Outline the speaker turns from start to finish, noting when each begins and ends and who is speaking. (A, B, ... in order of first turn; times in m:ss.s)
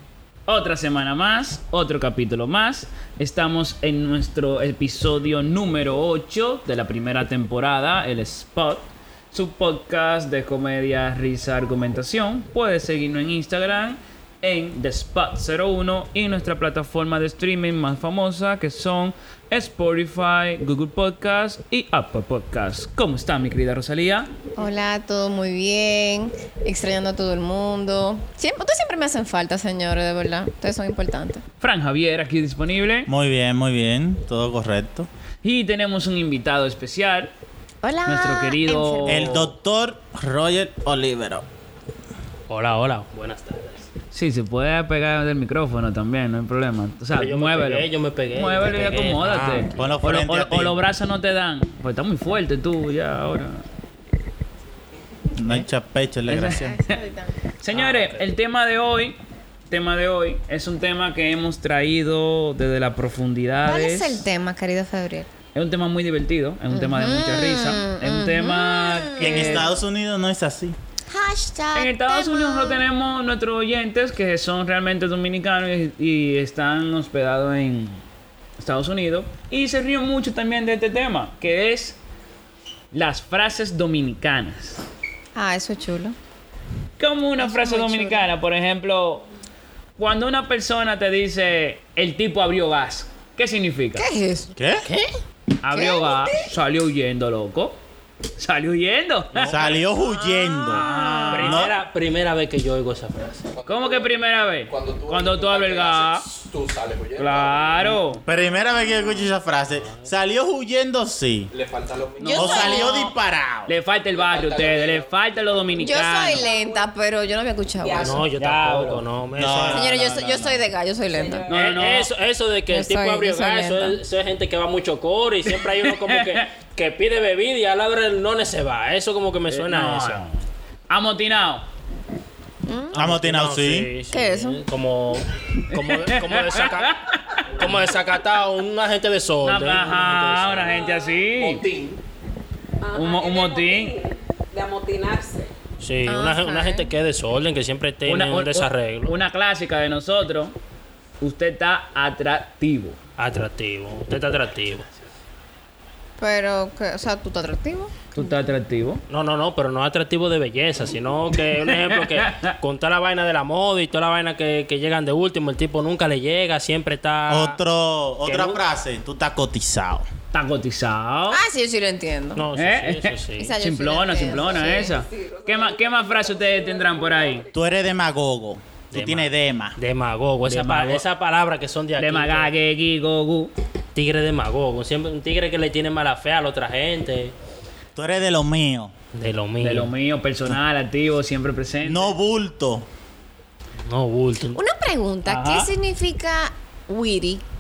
0:00.5-0:24.3 A
0:24.6-0:31.4 B
0:31.6-0:33.1 A
0:33.1-0:35.1 C
0:35.4-0:37.3 A
0:37.8-0:39.4 B
0:38.1-0:39.5 A
0:39.0-0:41.5 C
0:42.5-0:43.9 D
0:44.1-0:53.6 A
0:47.2-0:49.7 D
0:49.7-0:50.7 C
0:55.4-0:56.8 C
0:56.3-0:57.0 A
0:56.4-0:57.4 B
0:57.6-0:59.2 A
0:57.7-0:58.1 D
0:59.7-1:04.2 A
1:03.7-1:05.3 B
1:05.6-1:09.7 A
1:06.7-1:09.6 B
1:09.2-1:10.8 C
1:11.1-1:12.8 B
1:11.7-1:18.0 A
1:18.6-1:22.0 A
1:22.9-1:24.8 A
1:25.4-1:26.2 B
1:27.0-1:29.3 A
1:27.4-1:28.2 B
1:30.0-1:34.1 A
1:34.0-1:34.6 B
1:34.6-1:34.9 C
1:34.9-1:35.1 D
1:35.6-1:37.8 A
1:35.7-1:36.5 B
1:38.4-1:39.6 A
1:39.3-1:39.8 D
1:39.4-1:41.7 C
1:39.8-1:41.4 B
1:40.7-1:41.7 A
1:41.3-1:43.5 D
1:43.6-1:47.9 E
1:43.7-1:46.3 A
1:47.2-1:48.2 A
1:48.2-1:51.5 C
1:48.7-1:49.3 B
1:51.5-1:52.7 E
1:52.2-1:53.1 A
1:52.2-1:53.1 B
1:52.3-1:53.7 C
1:53.7-1:56.5 A
1:54.1-1:55.1 E
1:55.8-1:58.2 B
1:56.0-1:56.9 F
1:57.8-1:58.3 F
1:58.0-2:00.0 D
1:58.4-1:59.0 A
1:59.4-2:00.7 C
1:59.7-2:01.5 B
2:01.1-2:01.5 F
2:01.5-2:02.1 A
2:01.5-2:10.2 D
2:02.7-2:04.0 B
2:05.9-2:06.5 A
2:09.5-2:11.7 A
2:12.7-2:13.0 B
2:12.9-2:13.9 C
2:12.9-2:17.0 D
2:14.1-2:14.6 B
2:15.7-2:17.7 A
2:17.6-2:20.9 D
2:19.4-2:21.6 A
2:21.2-2:22.0 E
2:22.8-2:25.5 F
2:22.9-2:24.0 A
2:25.8-2:29.2 D
2:26.1-2:26.9 B
2:28.1-2:30.5 A
2:31.2-2:33.0 A
2:33.2-2:34.9 D
2:36.2-2:37.9 B
2:38.2-2:39.0 A
2:39.1-2:47.6 D
2:41.6-2:42.6 A
2:47.3-2:50.1 C
2:48.2-2:48.6 D
2:50.3-2:51.4 A
2:51.3-2:52.4 B
2:52.4-2:53.6 D
2:52.5-2:57.5 A
2:53.4-2:55.0 B
2:54.7-2:57.2 F
2:57.5-2:59.8 C
2:58.9-3:02.5 D
3:00.4-3:01.1 A
3:02.0-3:03.5 A
3:04.0-3:07.3 D
3:08.0-3:08.9 C
3:09.1-3:09.9 D
3:09.6-3:12.2 A
3:11.8-3:12.9 C
3:13.9-3:14.6 D
3:14.6-3:17.4 B
3:15.2-3:15.7 A